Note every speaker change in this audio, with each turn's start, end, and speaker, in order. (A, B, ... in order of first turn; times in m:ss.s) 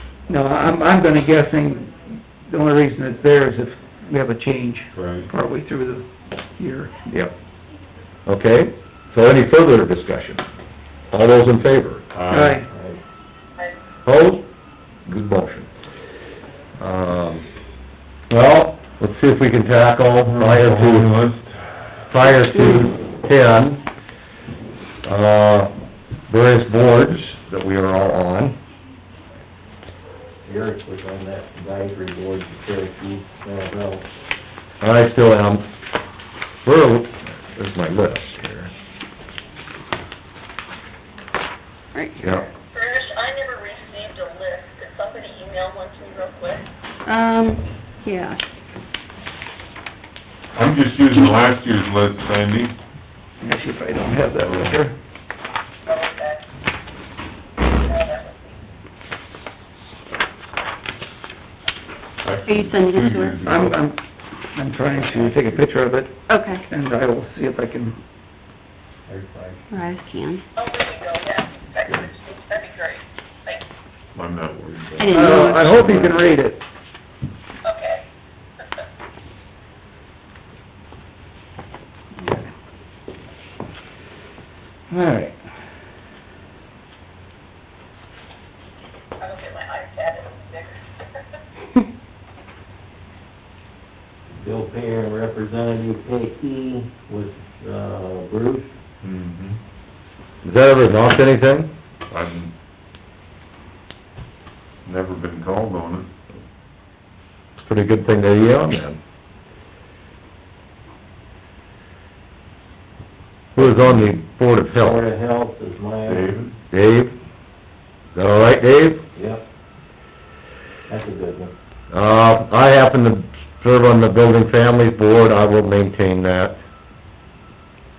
0:00.3-0:07.0 A
0:04.9-0:05.3 B
0:08.2-0:10.4 C
0:11.1-0:12.0 C
0:12.1-0:12.6 B
0:12.3-0:12.7 A
0:12.7-0:13.0 D
0:14.0-0:14.5 C
0:15.0-0:15.7 C
0:16.8-0:17.4 C
0:18.3-0:21.1 C
0:20.2-0:22.0 B
0:22.1-0:23.8 C
0:22.3-0:22.8 E
0:25.0-0:25.7 C
0:26.3-0:28.6 C
0:30.4-0:34.0 D
0:34.8-0:35.7 C
0:36.6-0:38.7 C
0:41.9-0:42.2 E
0:42.2-0:42.5 C
0:42.7-0:46.6 F
0:47.0-0:48.4 E
0:50.5-0:52.7 B
0:53.4-0:55.0 A
0:54.2-0:54.8 B
0:55.9-0:56.4 F
0:57.6-0:58.6 F
1:02.2-1:03.9 B
1:02.4-1:03.4 E
1:03.4-1:04.0 A
1:04.5-1:08.0 A
1:05.0-1:05.4 D
1:06.3-1:06.6 E
1:09.1-1:09.9 D
1:09.7-1:10.4 E
1:10.6-1:13.6 F
1:14.1-1:16.2 B
1:15.0-1:16.0 E
1:15.1-1:16.6 A
1:17.6-1:18.0 F
1:22.2-1:22.5 A
1:24.9-1:25.4 A
1:29.2-1:30.8 F
1:34.3-1:38.7 D
1:39.0-1:39.6 B
1:40.4-1:41.7 C
1:42.1-1:42.5 B
1:44.8-1:46.1 B
1:47.6-1:49.0 C
1:53.6-1:53.9 D
1:53.6-1:55.0 C
1:54.7-1:56.3 D
1:56.1-1:56.5 B
1:56.7-1:57.2 C
1:58.1-1:59.0 C
1:59.1-1:59.4 D
2:00.9-2:01.5 D
2:01.9-2:06.6 C